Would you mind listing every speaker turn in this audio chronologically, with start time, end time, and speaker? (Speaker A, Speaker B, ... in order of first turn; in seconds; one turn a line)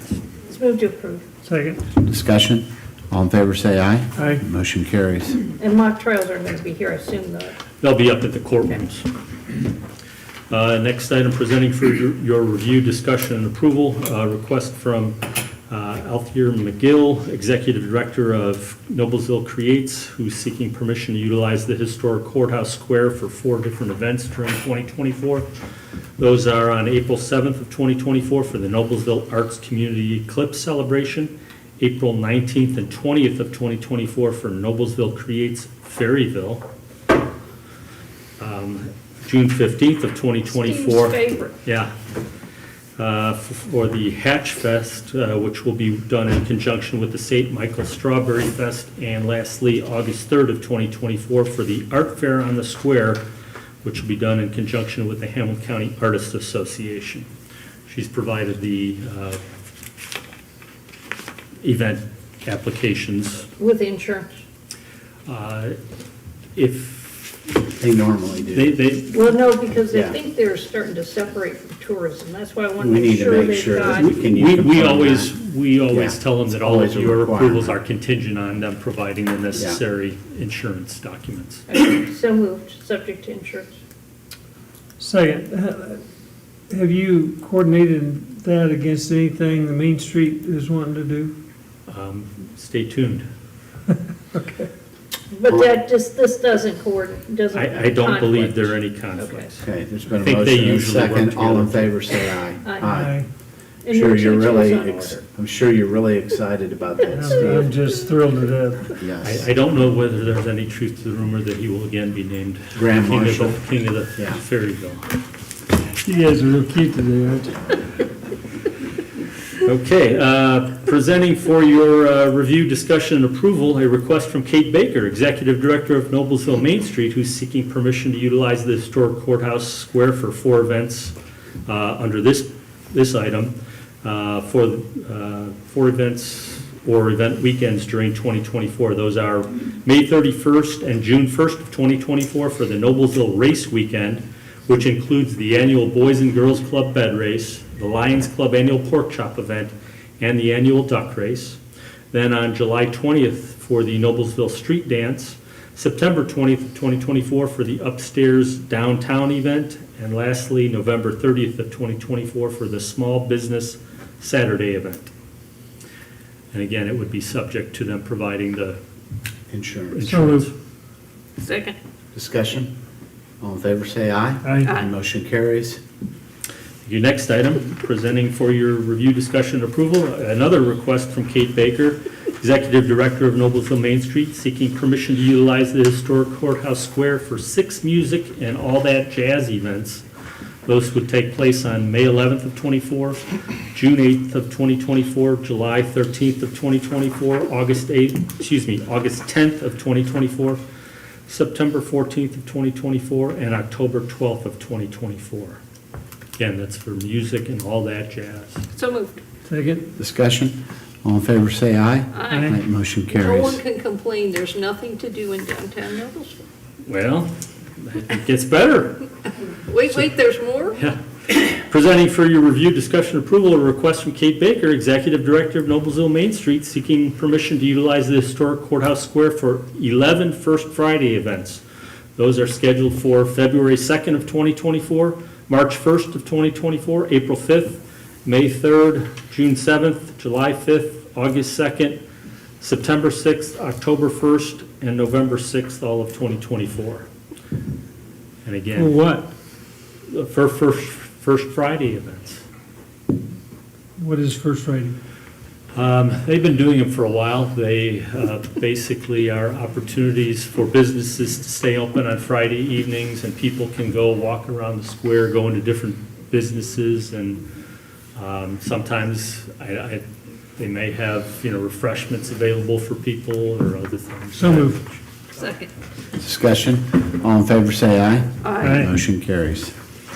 Speaker A: 0.5-1.2
Speaker B: 1.4-1.8
Speaker C: 2.0-5.4
Speaker B: 4.2-4.4
Speaker A: 5.6-7.6
Speaker D: 7.8-9.1
Speaker D: 10.5-25.5
Speaker D: 26.2-36.6
Speaker D: 38.4-41.9
Speaker A: 40.5-41.6
Speaker D: 43.0-53.2
Speaker D: 53.8-57.3
Speaker D: 57.9-59.4
Speaker D: 61.6-63.5
Speaker A: 63.6-64.4
Speaker D: 65.3-65.8
Speaker D: 66.6-67.5
Speaker C: 67.8-68.8
Speaker D: 68.5-69.3
Speaker A: 69.1-74.1
Speaker C: 69.9-70.2
Speaker C: 72.8-75.3
Speaker D: 73.8-81.7
Speaker C: 75.9-77.8
Speaker C: 79.5-79.8
Speaker A: 81.7-83.7
Speaker B: 85.0-86.0
Speaker B: 86.7-91.3
Speaker D: 91.9-93.3
Speaker B: 94.3-94.7
Speaker A: 95.3-99.5
Speaker D: 97.5-99.6
Speaker C: 99.6-103.2
Speaker D: 100.2-102.0
Speaker A: 102.7-103.0
Speaker B: 102.8-103.3
Speaker A: 103.8-105.2
Speaker C: 103.9-107.7
Speaker B: 107.1-109.0
Speaker A: 107.2-107.7
Speaker C: 109.0-109.5
Speaker D: 109.2-115.1
Speaker C: 112.8-113.6
Speaker C: 114.2-114.4
Speaker B: 116.0-117.7
Speaker D: 119.6-151.6
Speaker D: 152.1-165.1
Speaker D: 166.5-168.8
Speaker C: 169.5-170.1
Speaker D: 169.9-170.5
Speaker B: 170.1-170.5
Speaker A: 171.4-171.8
Speaker C: 172.1-172.7
Speaker C: 173.4-175.8
Speaker B: 174.4-174.7
Speaker A: 174.6-174.9
Speaker D: 176.8-190.1
Speaker D: 190.7-193.2
Speaker D: 193.7-200.6
Speaker D: 201.3-205.6
Speaker D: 206.4-208.7
Speaker A: 208.8-209.2
Speaker B: 209.5-209.9
Speaker C: 210.0-213.6
Speaker A: 212.2-212.5
Speaker B: 212.3-212.6
Speaker A: 213.1-216.4
Speaker D: 216.8-219.0
Speaker A: 219.7-220.8
Speaker D: 220.8-231.6
Speaker D: 232.2-242.0
Speaker D: 242.6-247.1
Speaker D: 248.4-249.0
Speaker B: 248.8-249.3
Speaker D: 250.1-252.4
Speaker B: 254.0-254.9
Speaker D: 255.7-267.4
Speaker D: 268.1-270.0
Speaker D: 270.6-275.0
Speaker B: 274.4-274.8
Speaker A: 275.4-275.7
Speaker C: 276.2-279.7
Speaker A: 278.4-278.8
Speaker B: 278.6-278.9